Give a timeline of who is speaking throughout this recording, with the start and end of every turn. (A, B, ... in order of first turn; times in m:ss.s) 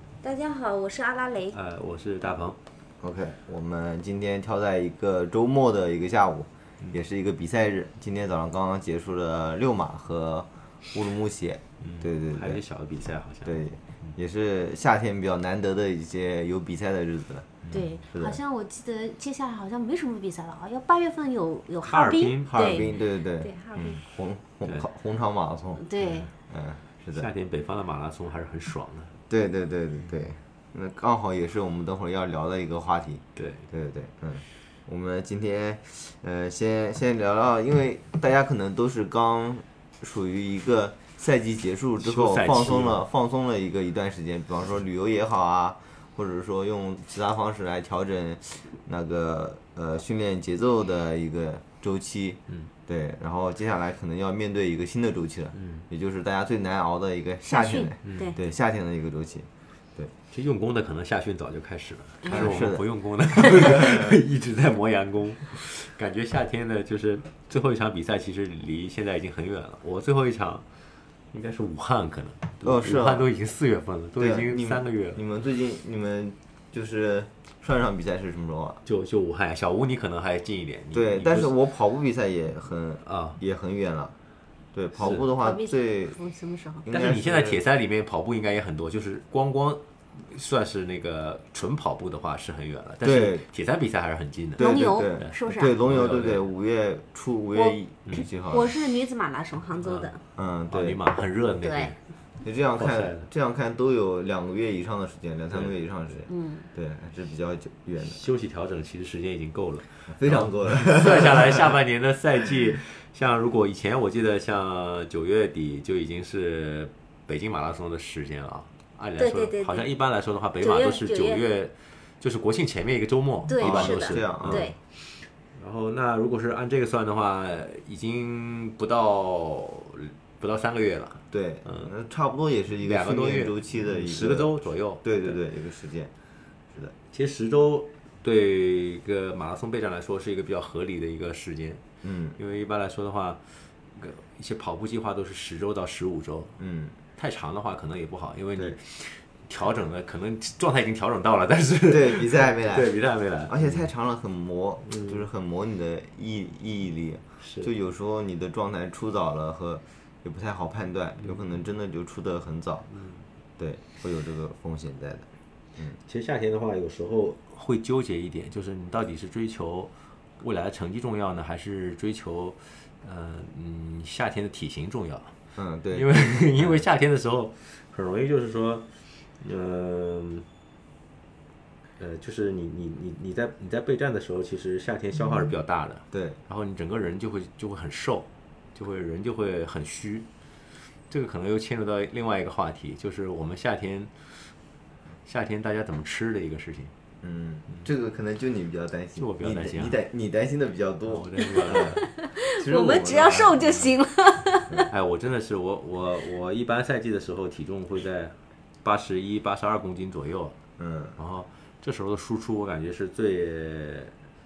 0:00.2-0:01.6 A
0:01.5-0:02.6 B
0:03.0-0:12.6 C
0:11.8-0:14.1 B
0:13.4-0:17.6 C
0:17.6-0:17.9 B
0:17.7-0:24.0 A
0:18.1-0:18.4 C
0:21.8-0:22.8 B
0:22.5-0:25.8 C
0:25.8-0:26.3 A
0:26.0-0:26.3 B
0:26.5-0:27.2 C
0:27.1-0:29.1 B
0:29.3-1:00.1 C
0:33.4-0:33.7 B
0:42.0-0:43.0 B
0:55.5-0:55.8 B
0:57.5-0:58.4 A
0:58.0-0:58.3 B
1:00.3-1:10.6 B
1:02.2-1:02.8 C
1:03.7-1:04.0 C
1:11.3-1:15.2 B
1:12.6-1:13.3 C
1:14.2-1:18.8 C
1:18.8-1:21.5 B
1:20.9-1:24.1 C
1:23.0-1:23.4 B
1:24.7-1:26.2 C
1:25.0-1:25.2 B
1:25.1-1:26.8 A
1:26.8-1:27.6 C
1:26.9-1:36.4 B
1:33.0-1:33.4 C
1:34.6-1:38.7 C
1:34.6-1:35.8 A
1:37.5-1:40.2 A
1:39.8-1:40.1 B
1:40.4-1:41.0 C
1:40.7-1:42.0 B
1:41.6-1:41.9 A
1:42.4-1:48.2 C
1:42.8-1:43.2 B
1:46.3-1:46.7 A
1:48.0-2:11.9 B
1:50.1-1:51.6 C
1:59.2-1:59.9 A
2:00.6-2:01.4 A
2:03.5-2:04.7 A
2:03.6-2:04.7 C
2:11.3-2:16.1 C
2:12.8-2:15.4 B
2:17.1-2:21.8 B
2:22.0-2:22.4 C
2:22.4-2:26.6 B
2:26.6-2:26.9 C
2:27.2-2:33.9 B
2:31.9-2:32.9 C
2:33.5-2:42.9 C
2:34.8-2:35.2 B
2:37.4-2:37.7 B
2:42.9-2:43.2 B
2:43.6-2:46.0 C
2:46.0-2:55.3 B
2:55.6-2:56.8 C
2:55.9-3:00.5 B
3:02.0-3:10.3 B
3:06.1-3:06.4 C
3:11.1-3:14.5 B
3:15.2-3:16.9 B
3:17.2-3:23.8 C
3:19.2-3:20.0 B
3:21.1-3:22.0 B
3:21.8-3:24.8 A
3:24.9-3:30.6 B
3:30.8-3:31.2 C
3:31.2-3:34.1 B